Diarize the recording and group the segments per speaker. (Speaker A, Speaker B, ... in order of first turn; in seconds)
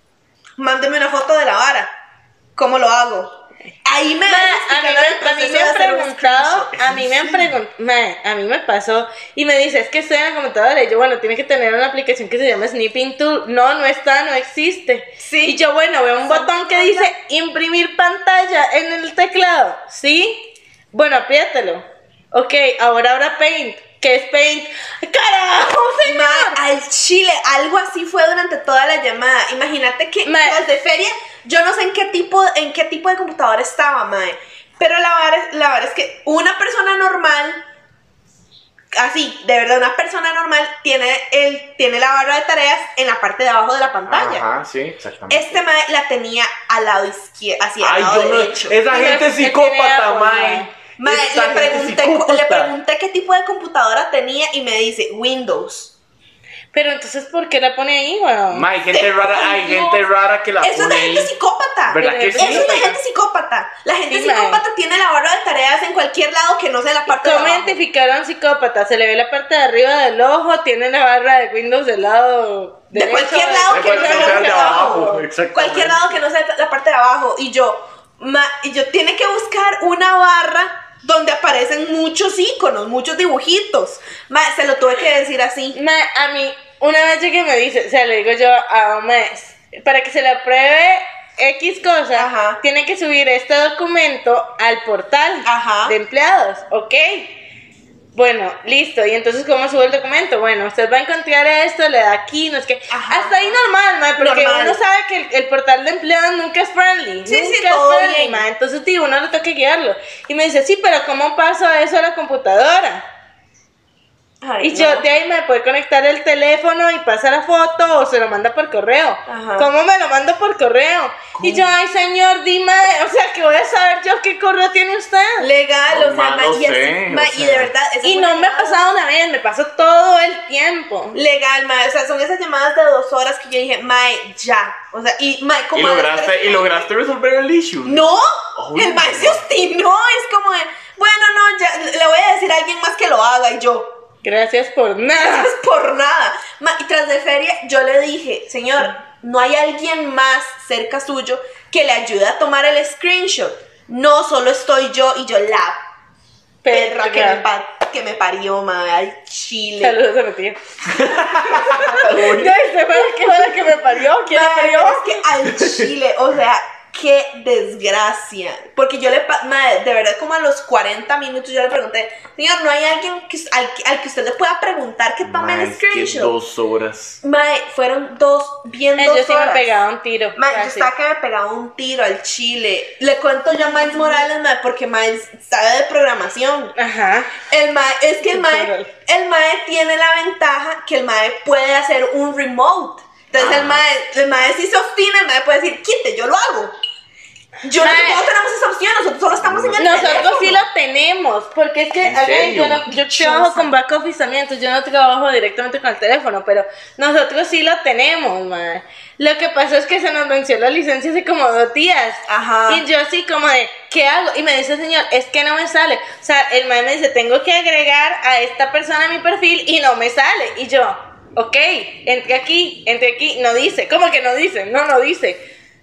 Speaker A: 0.6-1.9, 2.5-7.1, 15.2-15.6, 16.3-17.1, 26.1-37.6, 38.9-44.5, 45.3-48.8, 51.0-55.9, 58.9-60.0, 60.6-67.8, 72.9-85.8, 92.2-92.6, 95.5-96.0, 102.9-103.6, 104.2-104.8, 107.3-108.4, 114.4-115.1, 119.3-119.7, 125.4-128.8, 131.1-136.8, 137.8-144.0, 145.2-155.8, 156.7-160.0, 161.4-162.2, 164.3-176.3, 177.2-179.7, 180.4-186.8, 187.5-196.8, 197.6-200.6, 203.0-203.7, 212.3-212.8
Speaker B: 4.3-26.6, 30.2-30.6, 48.9-50.7, 56.7-58.7, 62.0-63.0, 64.1-64.6, 67.1-75.2, 85.7-97.4, 98.1-113.0, 114.6-125.5, 128.0-131.2, 144.2-145.5, 156.6-157.5, 159.8-160.6, 161.8-165.2, 179.0-180.9, 186.8-187.4, 188.3-188.9, 197.8-198.3, 199.8-225.4
Speaker C: 44.1-45.6, 47.8-52.7, 58.5-61.3, 61.9-63.0, 73.7-76.2, 121.4-121.7, 125.9-127.7, 135.7-138.0, 138.6-139.4, 160.9-162.5, 175.2-177.2, 193.3-193.8, 199.4-200.3, 202.0-202.9